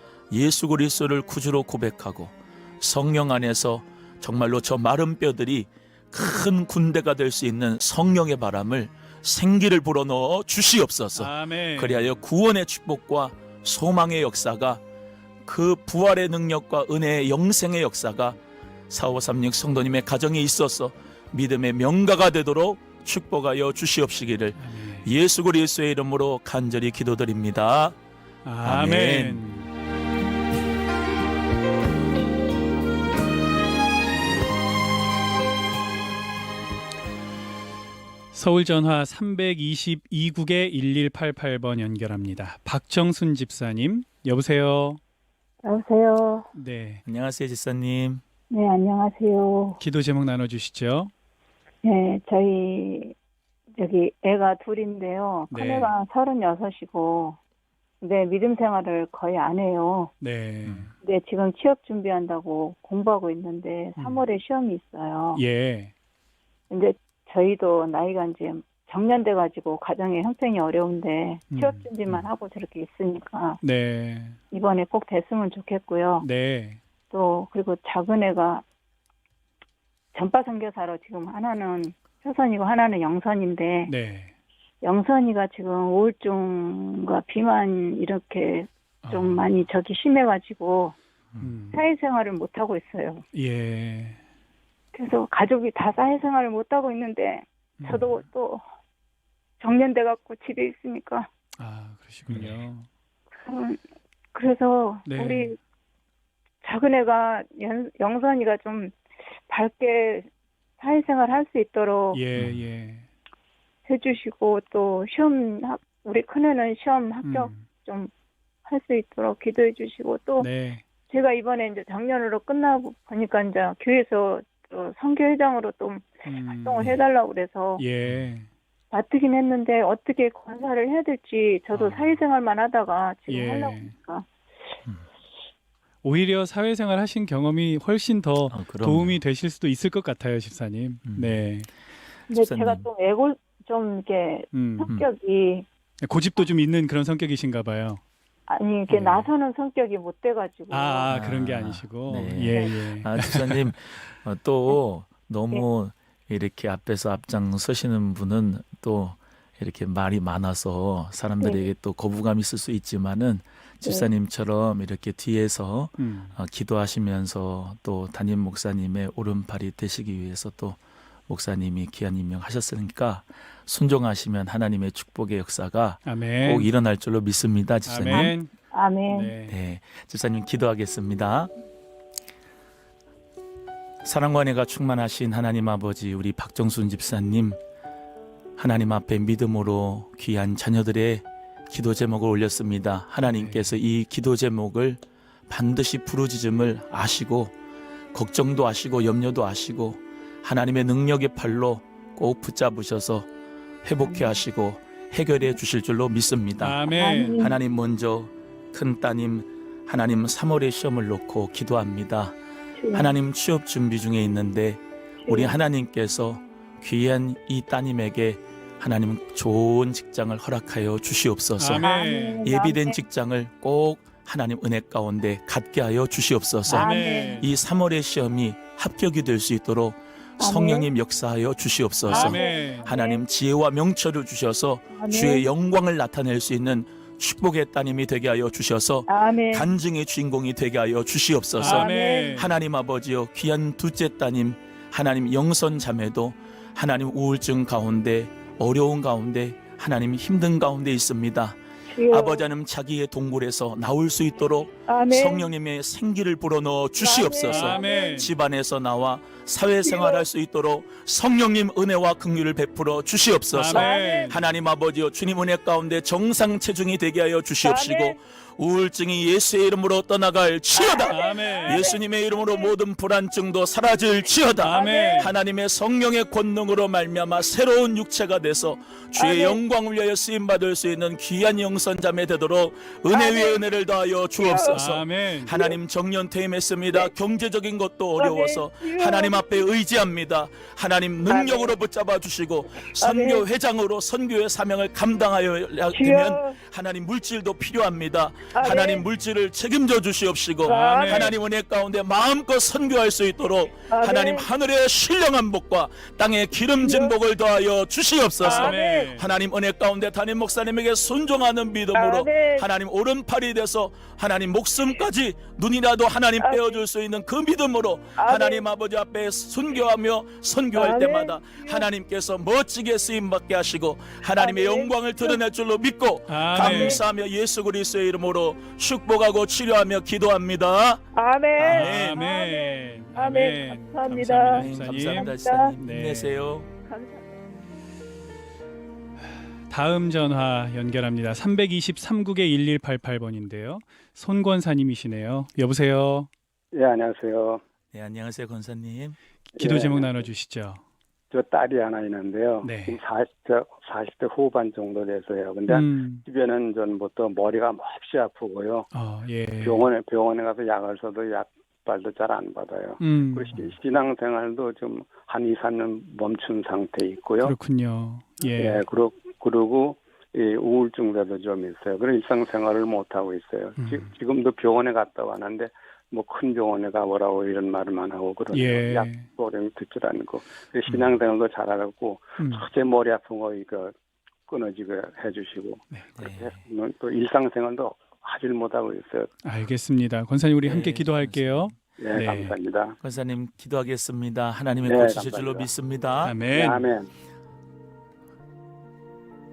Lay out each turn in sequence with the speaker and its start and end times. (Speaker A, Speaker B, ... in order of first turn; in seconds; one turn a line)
Speaker A: 0.3-14.8
Speaker B: 11.2-12.1
Speaker A: 15.4-28.0
Speaker B: 24.6-25.1
Speaker B: 28.4-29.7
Speaker A: 28.6-29.4
Speaker B: 38.3-45.0
Speaker C: 45.6-46.5
Speaker B: 46.5-47.0
Speaker A: 47.0-48.2
Speaker C: 48.5-49.8
Speaker B: 49.8-51.1
Speaker C: 51.8-53.1
Speaker C: 53.8-57.4
Speaker B: 55.5-55.9
Speaker C: 58.0-60.1
Speaker B: 60.2-60.9
Speaker C: 61.0-65.4
Speaker B: 65.3-65.9
Speaker C: 66.7-73.6
Speaker B: 71.5-71.9
Speaker B: 73.6-74.4
Speaker C: 74.5-76.2
Speaker B: 76.2-76.8
Speaker C: 77.1-78.6
Speaker C: 80.1-83.9
Speaker B: 83.9-84.3
Speaker C: 84.8-90.9
Speaker B: 89.0-89.5
Speaker B: 91.4-91.8
Speaker C: 91.7-93.2
Speaker B: 93.3-94.2
Speaker C: 94.9-98.6
Speaker B: 97.8-98.2
Speaker C: 99.6-101.3
Speaker B: 101.6-102.9
Speaker A: 102.3-102.5
Speaker C: 103.4-103.8
Speaker C: 104.3-105.6
Speaker B: 105.0-105.5
Speaker C: 106.6-109.0
Speaker C: 109.5-110.3
Speaker C: 110.8-112.2
Speaker B: 112.1-113.1
Speaker C: 113.9-118.1
Speaker B: 117.2-117.6
Speaker C: 118.7-120.5
Speaker B: 120.4-120.8
Speaker C: 121.1-127.8
Speaker B: 126.2-126.9
Speaker B: 127.8-128.5
Speaker C: 128.9-134.3
Speaker A: 131.7-132.2
Speaker B: 133.3-133.9
Speaker B: 136.0-141.7
Speaker A: 138.5-139.2
Speaker A: 141.1-141.3
Speaker C: 142.3-145.7
Speaker A: 142.3-142.9
Speaker B: 144.5-144.9
Speaker B: 146.0-148.0
Speaker C: 148.5-151.1
Speaker A: 148.9-149.3
Speaker B: 150.7-153.7
Speaker A: 151.1-178.3
Speaker B: 166.0-166.3
Speaker B: 176.1-176.7
Speaker B: 177.8-178.5
Speaker C: 178.1-179.3
Speaker B: 179.1-179.6
Speaker A: 179.5-181.5
Speaker A: 184.0-187.6
Speaker A: 188.6-197.5
Speaker B: 193.2-193.7
Speaker A: 198.1-203.3
Speaker A: 203.8-206.8
Speaker B: 206.6-207.5
Speaker C: 206.9-207.6
Speaker A: 207.4-212.3
Speaker C: 212.8-213.1
Speaker A: 212.9-221.9
Speaker C: 215.2-215.6
Speaker B: 221.6-222.4
Speaker C: 221.7-223.0
Speaker A: 222.4-331.0
Speaker C: 226.7-227.4
Speaker B: 226.7-227.5
Speaker C: 230.4-230.9
Speaker B: 232.1-232.9
Speaker C: 232.1-233.2
Speaker C: 234.9-235.5
Speaker C: 239.1-239.7
Speaker B: 241.6-242.5
Speaker C: 241.6-242.4
Speaker C: 251.9-252.5
Speaker C: 254.9-255.5
Speaker C: 257.0-258.3
Speaker B: 257.5-258.3
Speaker C: 259.8-260.2
Speaker B: 263.5-264.3
Speaker C: 263.7-264.3
Speaker C: 267.6-268.2
Speaker C: 270.7-272.7
Speaker B: 271.1-271.8
Speaker B: 274.6-275.3
Speaker C: 274.6-275.3
Speaker C: 279.2-279.6
Speaker C: 283.1-283.6
Speaker C: 284.4-284.8
Speaker B: 284.7-285.5
Speaker C: 288.2-289.6
Speaker C: 291.3-291.7
Speaker C: 292.9-293.4
Speaker C: 295.9-296.6
Speaker C: 298.5-299.0
Speaker B: 300.6-301.3
Speaker C: 300.6-301.3
Speaker C: 303.9-304.4
Speaker C: 306.8-307.1
Speaker C: 308.4-309.1
Speaker B: 308.4-309.2
Speaker C: 311.9-312.6
Speaker C: 316.4-316.8
Speaker C: 318.1-318.6
Speaker C: 320.7-321.9
Speaker C: 324.3-325.4
Speaker B: 326.3-327.0
Speaker C: 326.5-327.0
Speaker C: 331.1-335.7
Speaker A: 331.6-332.2
Speaker B: 331.6-336.3
Speaker A: 334.5-336.7
Speaker C: 336.9-337.4
Speaker B: 339.7-346.3
Speaker D: 346.7-347.6
Speaker A: 347.9-349.2
Speaker B: 349.5-350.8
Speaker D: 349.6-350.2
Speaker D: 351.3-358.9
Speaker B: 352.6-353.0
Speaker B: 355.7-356.2
Speaker B: 358.9-359.9
Speaker D: 359.6-367.5
Speaker B: 363.0-363.7
Speaker B: 367.4-368.8
Speaker D: 368.5-383.9
Speaker B: 373.8-374.1
Speaker B: 378.5-379.3
Speaker A: 380.9-381.1
Speaker B: 382.4-382.6
Speaker D: 384.5-389.3
Speaker A: 386.2-386.6
Speaker B: 389.4-392.6
Speaker A: 390.6-391.8
Speaker D: 392.0-393.0
Speaker A: 393.0-396.4
Speaker D: 394.8-395.7
Speaker B: 396.2-396.9
Speaker D: 396.5-397.1